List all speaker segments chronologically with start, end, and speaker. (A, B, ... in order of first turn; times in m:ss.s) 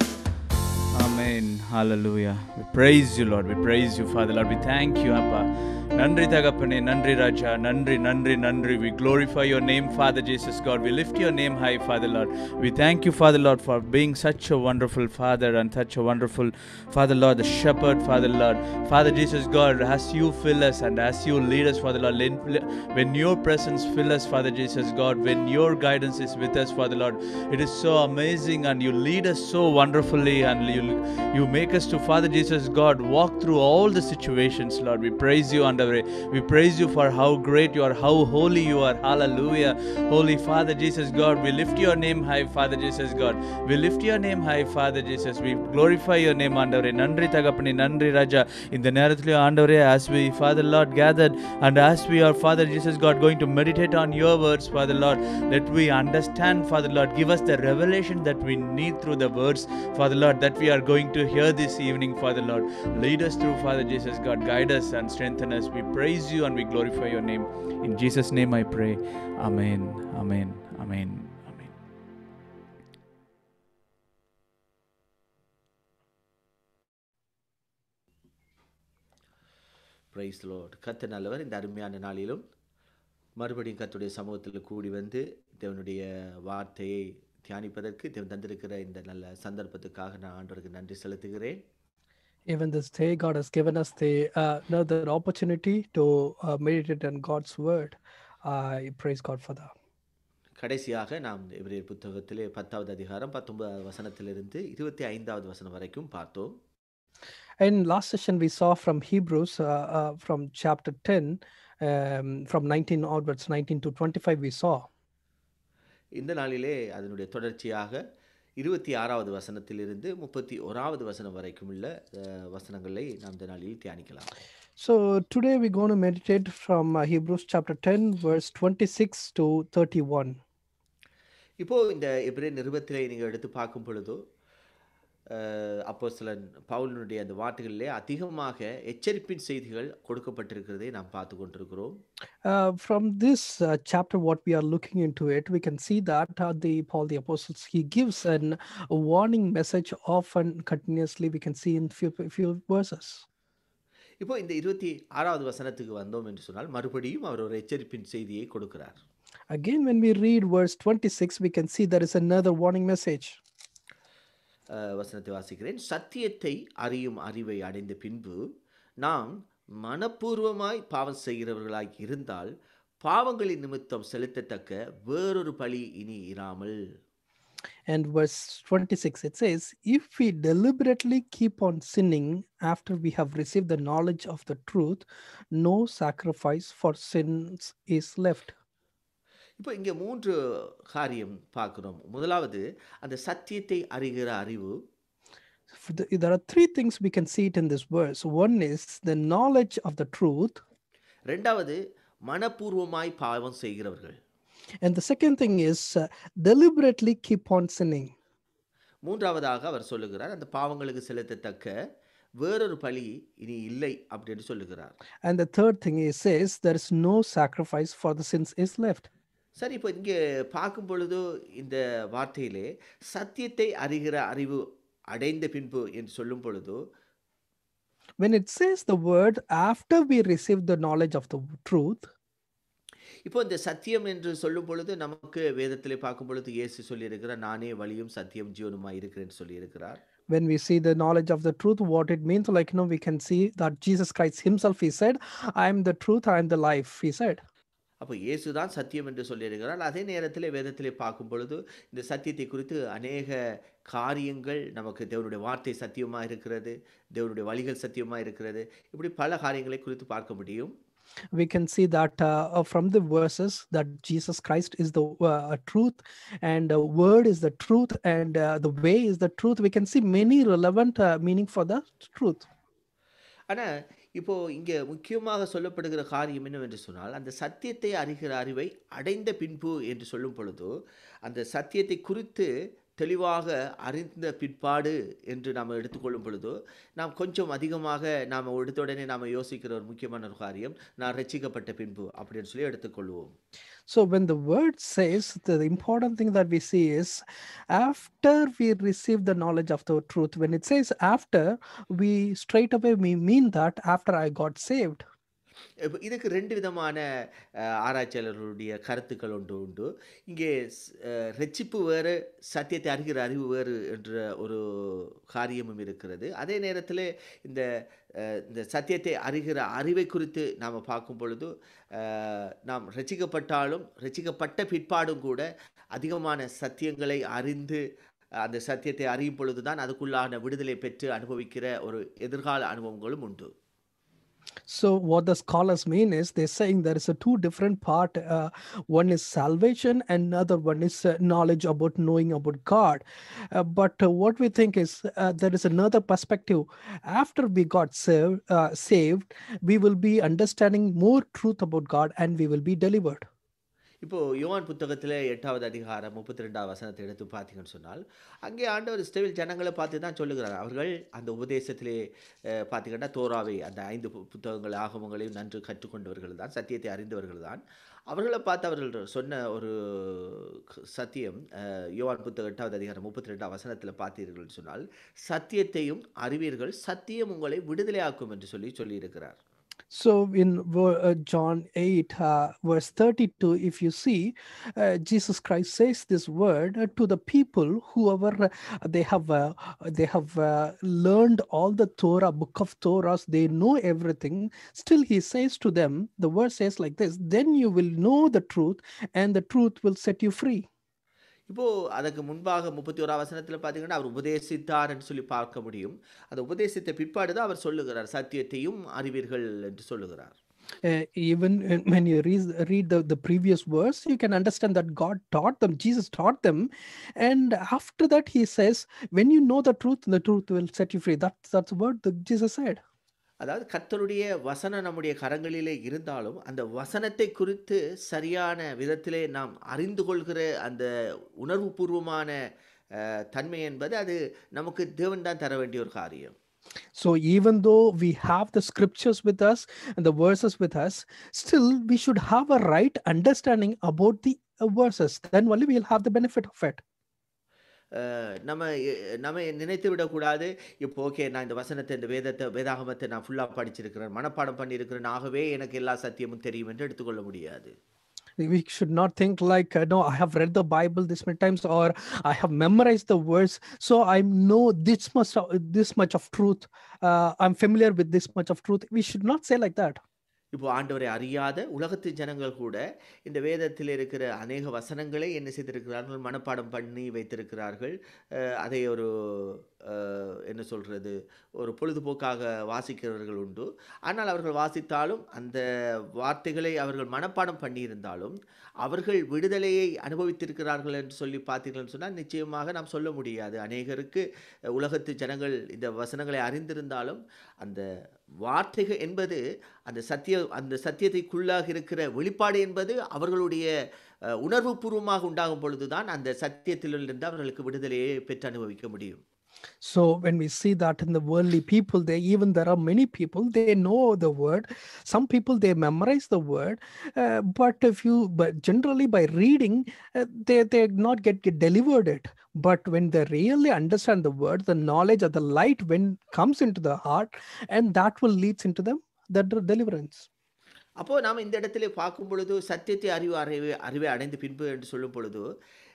0:00.9-1:11.8 A
1:20.1-1:22.4 B
1:23.4-1:31.6 B
1:32.5-1:39.7 C
1:40.6-1:46.5 B
1:47.6-1:54.9 C
1:56.2-1:58.0 B
1:58.6-2:04.3 B
2:04.8-2:10.4 C
2:11.6-2:14.2 B
2:15.3-2:21.9 B
2:22.4-2:33.2 C
2:34.2-2:39.0 B
2:39.5-2:43.4 C
2:44.7-2:48.4 B
2:49.0-2:52.5 B
2:53.0-2:56.8 B
2:57.9-3:08.5 C
3:09.6-3:14.8 B
3:15.7-3:20.6 C
3:21.3-3:24.2 B
3:24.8-3:28.1 C
3:29.0-3:31.7 B
3:32.4-3:35.0 B
3:35.2-3:39.1 C
3:39.6-3:46.8 B
3:48.2-3:52.1 C
3:53.3-4:00.0 B
4:00.3-4:07.4 C
4:08.0-4:20.7 B
4:21.3-4:32.5 C
4:33.5-4:40.7 B
4:41.3-4:42.5 B
4:43.0-4:53.3 B
4:53.9-5:05.0 C
5:05.8-5:07.0 B
5:07.8-5:10.5 B
5:11.0-5:17.6 B
5:18.2-5:25.4 B
5:26.0-5:27.8 B
5:28.4-5:33.5 B
5:34.7-5:53.3 C
5:54.0-6:02.0 B
6:02.7-6:19.4 B
6:19.9-6:40.7 C
6:41.5-6:50.4 B
6:50.8-7:02.8 C
7:03.4-7:10.9 B
7:11.4-7:12.4 B
7:13.0-7:16.4 B
7:17.0-7:26.8 C
7:28.0-7:28.7 B
7:29.2-7:37.7 B
7:38.4-7:50.0 C
7:50.5-8:05.6 B
8:06.2-8:14.2 B
8:14.8-8:17.8 B
8:18.4-8:23.7 B
8:24.4-8:29.2 B
8:29.8-8:50.3 C
8:51.0-8:55.4 B